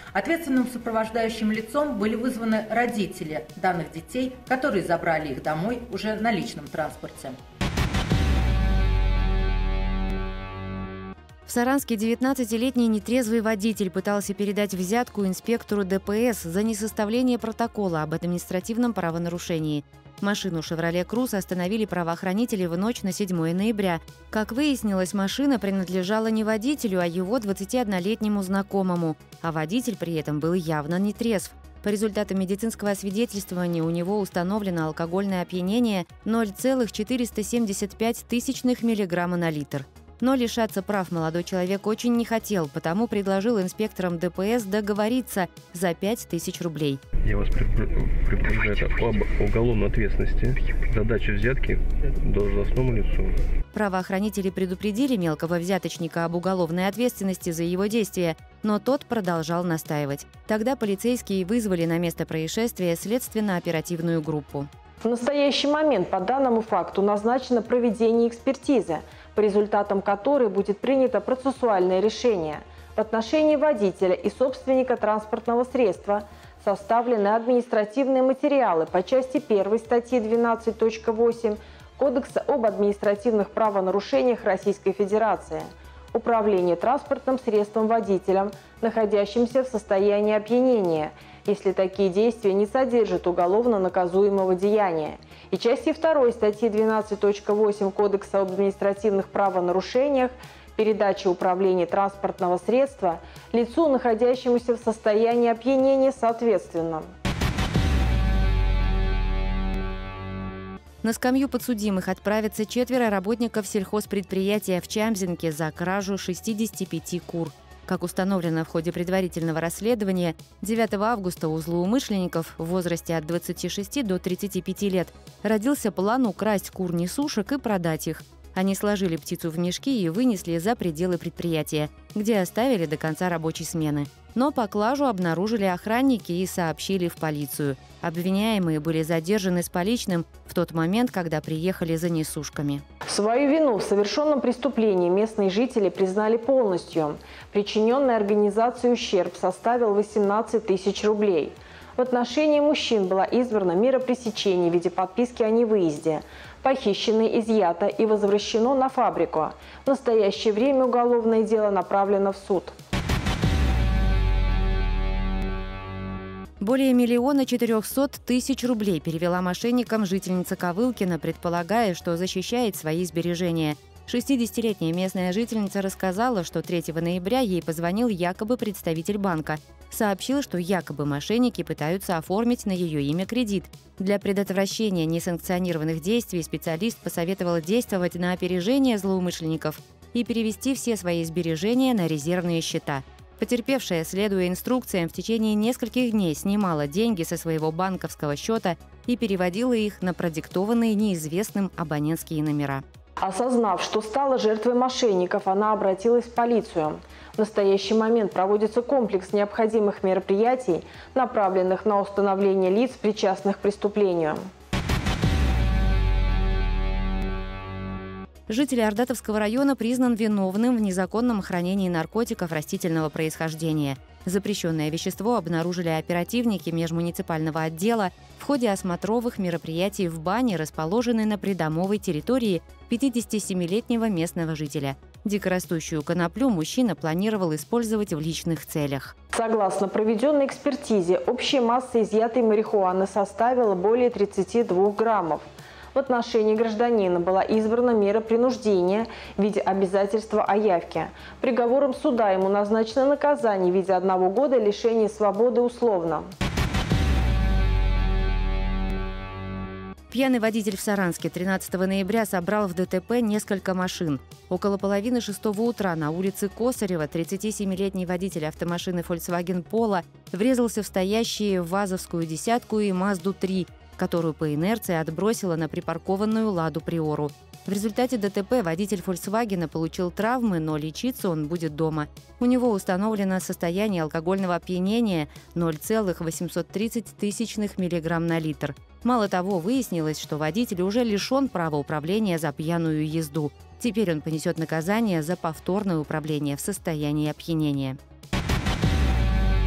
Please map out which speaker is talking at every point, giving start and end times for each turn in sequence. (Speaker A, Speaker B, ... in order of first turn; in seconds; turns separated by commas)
Speaker A: 0.1-7.4, Speaker B: 11.4-47.0, Speaker C: 47.2-53.4, Speaker B: 53.7-64.7, Speaker D: 65.0-107.1, Speaker B: 111.0-142.8, Speaker D: 143.1-162.7, Speaker B: 166.6-202.8, Speaker D: 203.2-214.4, Speaker B: 218.5-239.1, Speaker D: 239.3-256.3, Speaker B: 260.1-298.0